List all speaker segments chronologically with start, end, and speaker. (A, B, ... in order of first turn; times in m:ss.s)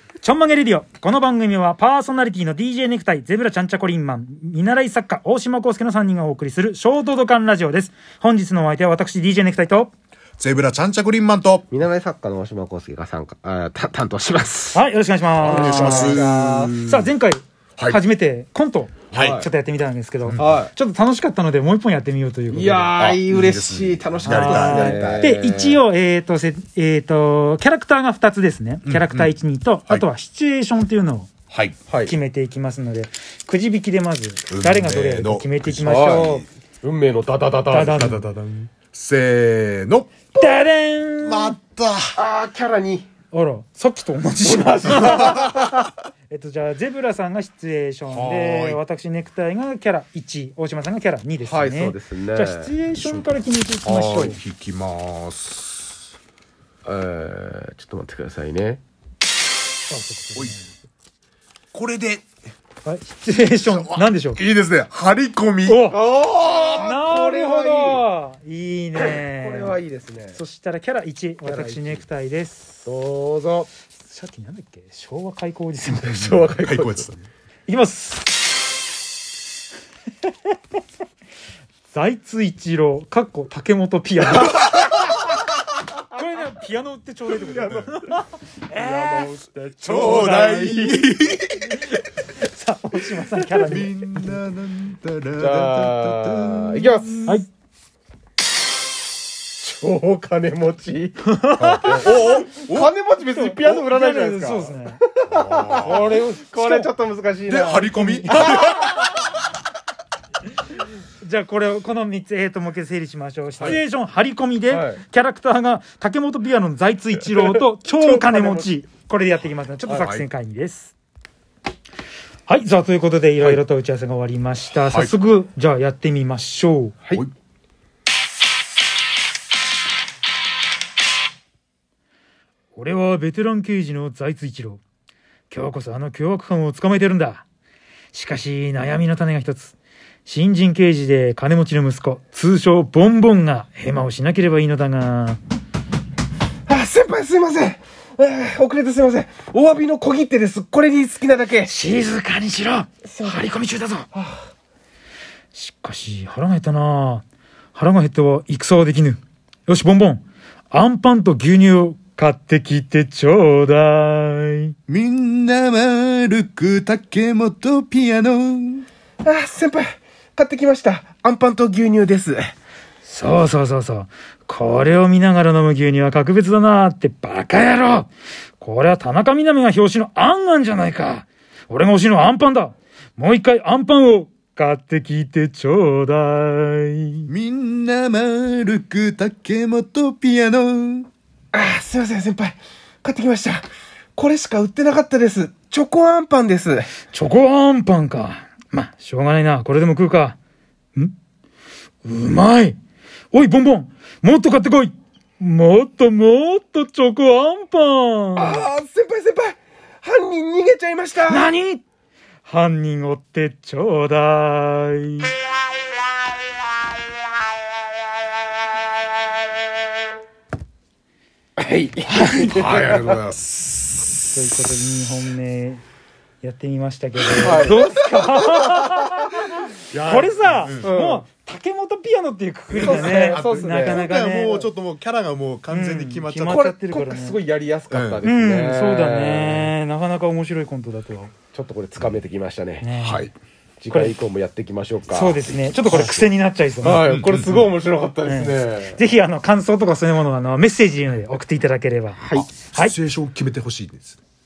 0:00.2-0:09.9 A
0:10.4-0:11.6 B
0:11.7-0:14.8 C
0:14.7-0:23.0 A
0:15.4-0:17.1 B
0:15.4-0:16.8 C
0:19.1-0:19.4 B
0:19.1-0:19.5 C
0:20.4-0:20.7 C
0:22.5-0:25.8 C
0:23.0-0:25.1 B
0:24.2-0:31.3 A
0:28.8-0:29.3 B
0:31.5-0:31.8 B
0:31.9-0:32.1 C
0:32.0-0:36.4 A
0:34.5-0:36.4 B
0:35.8-0:38.6 C
0:37.7-0:38.2 A
0:38.7-0:40.1 B
0:40.3-0:41.6 A
0:41.2-0:42.2 B
0:42.2-0:43.1 C
0:43.3-0:45.6 A
0:44.4-0:45.8 C
0:46.3-0:54.4 A
0:48.1-0:48.8 B
0:51.4-0:52.7 C
0:53.0-0:53.3 B
0:53.8-0:56.0 B
0:56.8-0:58.8 C
0:59.9-1:00.7 A
1:01.7-1:02.2 B
1:02.8-1:04.4 A
1:03.6-1:05.8 B
1:05.7-1:06.0 A
1:05.9-1:08.0 C
1:06.7-1:09.8 A
1:09.0-1:10.4 C
1:10.3-1:12.9 A
1:11.4-1:12.0 C
1:12.9-1:13.7 C
1:14.0-1:16.5 A
1:16.0-1:17.1 C
1:16.6-1:17.1 B
1:17.7-1:18.2 A
1:21.9-1:24.7 A
1:26.1-1:30.6 A
1:27.5-1:27.9 C
1:28.7-1:31.0 C
1:29.8-1:31.8 B
1:31.9-1:34.4 A
1:33.4-1:37.3 B
1:35.4-1:37.4 C
1:39.6-1:48.7 C
1:41.2-1:42.4 A
1:41.9-1:42.9 B
1:43.3-1:45.0 A
1:45.3-1:46.2 B
1:45.9-1:46.9 A
1:47.5-1:49.0 B
1:47.9-1:49.2 A
1:51.2-2:00.9 A
1:54.7-1:55.0 C
1:57.4-1:58.7 C
1:59.9-2:00.2 B
2:02.5-2:07.0 A
2:04.8-2:05.1 B
2:12.8-2:14.8 A
2:15.5-2:17.4 A
2:18.1-2:19.8 A
2:20.2-2:25.4 A
2:26.7-2:31.7 C
2:31.7-2:34.1 A
2:33.1-2:33.5 C
2:34.2-2:34.5 C
2:35.5-2:37.2 A
2:37.8-2:44.8 A
2:44.9-2:48.8 B
2:49.2-2:52.5 C
2:53.0-2:58.1 A
2:58.6-3:07.3 A
3:07.3-3:11.1 B
3:11.5-3:16.9 C
3:17.1-3:20.4 A
3:22.0-3:22.8 A
3:23.3-3:28.6 A
3:28.4-3:31.5 C
3:31.3-3:31.8 A
3:32.5-3:35.3 A
3:41.6-3:43.2 C
3:42.1-3:42.5 A
3:42.2-3:43.6 B
3:44.3-3:45.8 A
3:46.4-3:54.7 A
3:47.4-3:49.4 C
3:49.9-3:50.9 B
3:50.8-3:51.2 C
3:52.7-3:54.0 C
3:52.8-3:56.6 B
3:55.7-3:57.4 A
3:56.4-3:59.7 C
3:57.9-3:58.2 B
3:58.2-4:01.3 A
4:01.5-4:02.8 C
4:02.8-4:03.3 A
4:03.0-4:03.3 B
4:03.8-4:06.3 C
4:03.9-4:04.2 A
4:05.1-4:07.1 A
4:06.8-4:09.0 C
4:07.0-4:07.7 B
4:08.2-4:12.2 A
4:12.2-4:12.5 C
4:12.5-4:14.2 B